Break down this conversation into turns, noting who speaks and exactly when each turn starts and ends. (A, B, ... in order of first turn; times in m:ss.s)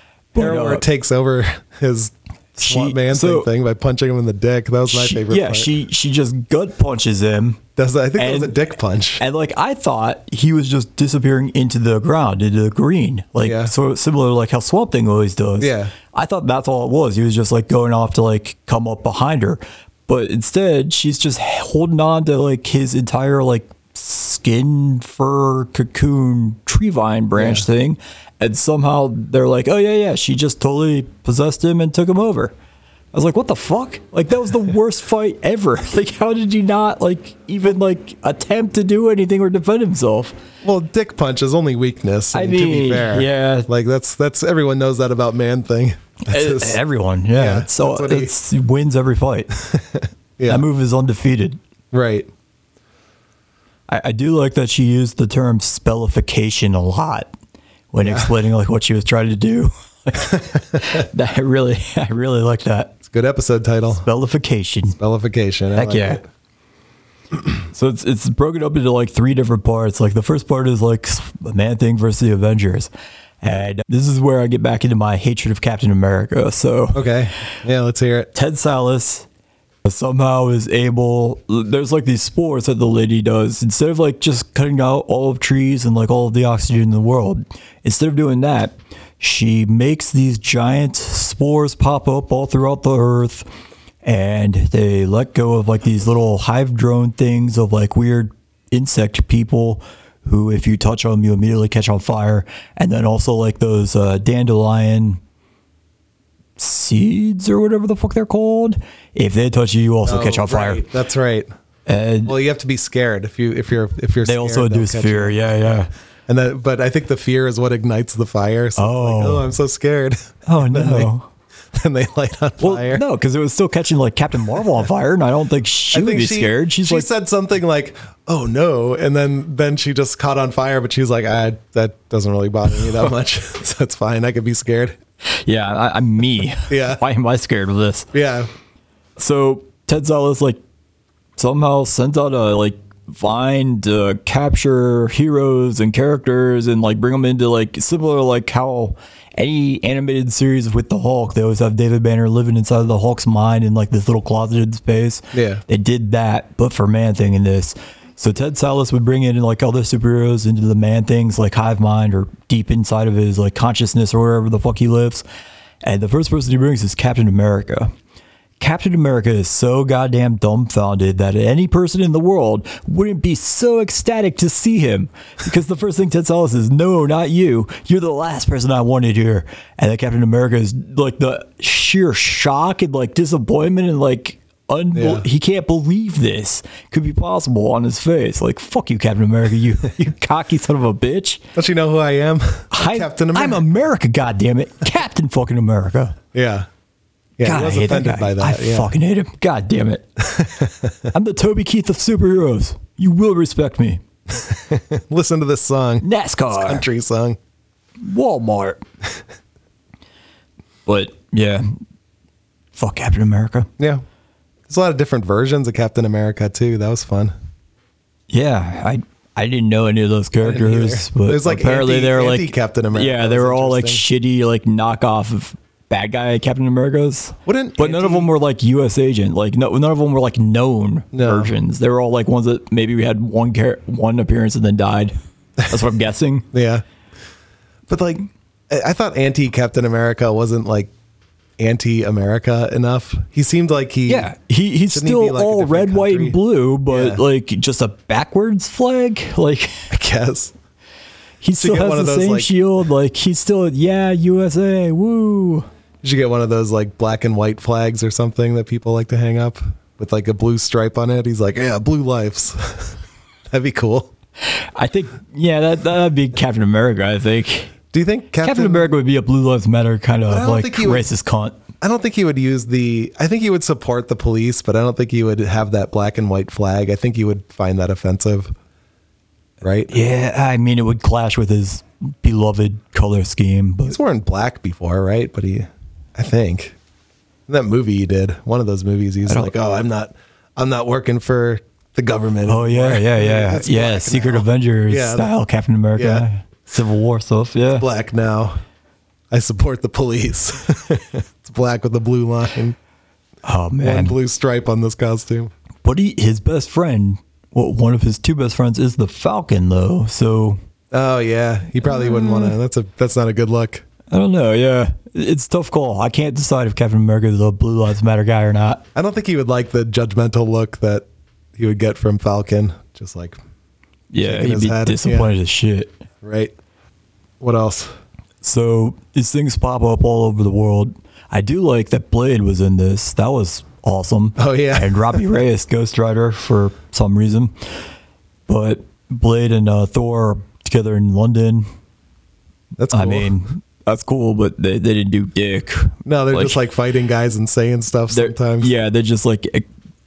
0:00.3-0:00.8 A
0:00.3-0:05.7 B
0:02.6-0:03.5 A
0:04.9-0:07.6 A
0:07.8-0:09.2 B
0:08.2-0:08.6 A
0:09.2-0:32.5 A
0:13.4-0:13.7 B
0:15.6-0:15.9 B
0:27.4-0:27.6 B
0:33.1-0:40.4 A
0:40.6-0:46.8 B
0:42.3-0:43.7 A
0:46.3-0:49.5 A
0:47.4-0:48.3 B
0:49.6-0:50.6 B
0:50.5-0:51.6 A
0:51.9-0:52.3 B
0:53.9-0:57.3 A
0:57.9-1:03.0 A
0:58.0-0:58.3 B
1:00.2-1:01.0 B
1:03.1-1:04.0 B
1:03.9-1:05.0 A
1:05.0-1:06.2 B
1:05.7-1:06.2 A
1:07.7-1:12.9 A
1:13.4-1:17.1 A
1:16.9-1:18.3 B
1:18.3-1:19.3 A
1:19.8-1:33.4 A
1:34.0-1:45.2 A
1:46.6-1:50.9 A
1:50.0-1:51.5 B
1:51.8-1:52.3 A
1:52.2-1:55.4 B
1:54.2-1:55.9 A
1:56.3-2:01.1 B
1:58.8-1:59.4 A
2:00.4-2:01.3 A
2:01.7-2:03.0 B
2:02.6-2:07.1 A
2:05.9-2:15.0 B
2:15.2-2:18.1 A
2:16.7-2:17.0 B
2:18.1-2:18.5 B
2:19.2-2:20.6 A
2:21.4-2:45.2 A
2:35.3-2:35.6 B
2:45.8-2:47.9 A
2:48.6-3:11.4 A
3:04.9-3:05.2 B
3:11.5-3:13.6 B
3:12.7-3:16.2 A
3:16.3-3:16.6 B
3:17.4-3:18.9 B
3:17.4-3:20.0 A
3:20.2-3:21.1 B
3:21.1-3:24.0 A
3:24.4-3:27.4 B
3:26.0-3:26.8 A
3:28.0-3:28.8 A
3:30.8-3:31.7 A
3:32.7-3:33.7 A
3:34.7-3:37.3 B
3:38.3-3:55.1 A
3:40.4-3:44.0 B
3:47.4-3:48.3 B
3:51.1-3:51.5 B
3:55.6-3:56.5 A
3:56.5-3:56.8 B
3:57.9-4:00.9 B
4:01.6-4:04.3 B
4:04.1-4:09.9 A
4:04.9-4:07.2 B
4:09.9-4:10.5 B
4:11.4-4:15.6 A
4:11.6-4:12.5 B
4:16.0-4:23.0 B
4:23.5-4:24.1 B
4:24.4-4:27.7 A
4:27.9-4:28.9 B
4:28.4-4:31.6 A
4:30.3-4:31.1 B
4:31.8-4:38.5 B
4:39.6-4:39.9 B
4:39.9-4:44.0 A
4:43.8-4:46.8 B
4:47.5-4:55.3 B
4:49.2-4:49.5 A
4:52.5-4:57.8 A
4:56.0-4:56.2 B
4:57.7-4:58.6 B
4:59.3-5:02.8 B
5:03.4-5:04.2 A
5:03.8-5:05.5 B
5:05.8-5:10.6 A
5:10.9-5:13.8 B
5:11.8-5:12.5 A
5:14.1-5:18.8 A
5:18.9-5:21.0 B
5:21.6-5:23.4 B
5:24.1-5:25.9 A
5:24.2-5:25.3 B
5:26.2-5:26.5 B
5:27.4-5:27.9 B
5:28.4-5:37.6 A
5:34.4-5:35.3 B
5:38.5-5:41.7 A
5:42.8-5:43.3 B
5:42.9-5:46.6 A
5:46.0-5:48.7 B
5:48.1-5:49.6 A